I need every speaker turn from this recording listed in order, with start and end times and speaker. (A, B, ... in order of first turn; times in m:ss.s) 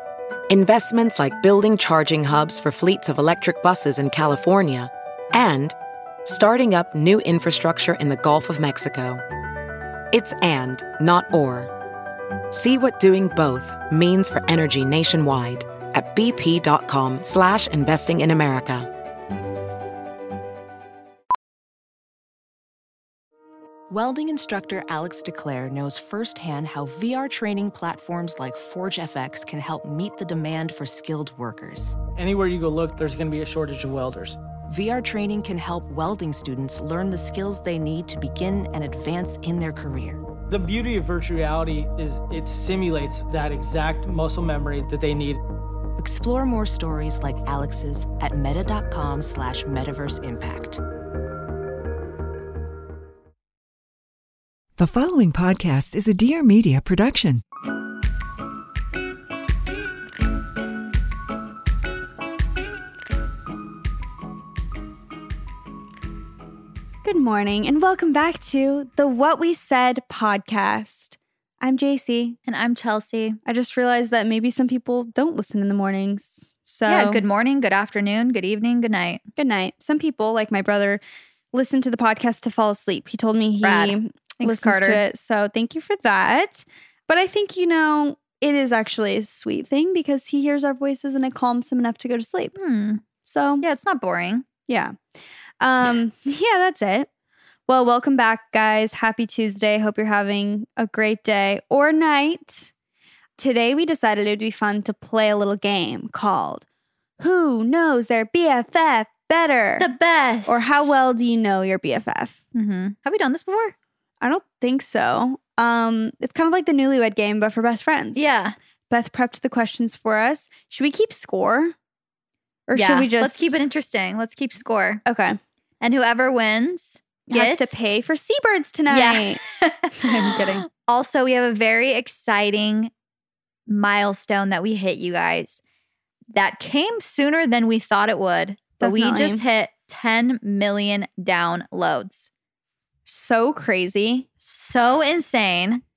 0:00.5-0:05.7 A
0:06.3-0:09.2 A
0:10.1-0:11.7 A
0:12.5-0:18.9 A
0:23.9-0:32.0 B
0:32.2-0:34.4 C
0:34.7-0:40.2 B
0:40.5-0:45.4 C
0:46.0-0:50.8 B
0:54.8-0:57.4 D
1:07.0-1:12.4 E
1:12.5-1:13.4 F
1:13.5-1:17.2 E
1:16.9-1:19.2 F
1:19.4-1:21.0 E
1:21.5-1:32.6 E
1:23.6-1:25.0 F
1:32.6-1:33.0 F
1:33.2-1:33.6 E
1:33.6-1:34.5 F
1:34.7-1:35.0 E
1:35.6-1:37.1 E
1:37.7-1:42.7 E
1:43.4-1:46.6 E
1:47.2-1:49.9 E
1:49.8-1:51.0 F
1:50.5-1:52.4 E
1:52.5-1:53.8 F
1:54.2-1:58.3 E
1:58.2-1:58.6 F
1:58.9-2:01.8 E
2:02.7-2:03.6 E
2:02.8-2:05.0 F
2:05.0-2:05.4 E
2:05.8-2:07.9 F
2:07.3-2:09.4 E
2:08.9-2:12.9 F
2:10.0-2:10.7 E
2:13.7-2:15.6 F
2:16.3-2:22.3 F
2:18.8-2:19.4 E
2:23.1-2:24.3 E
2:24.4-2:25.8 F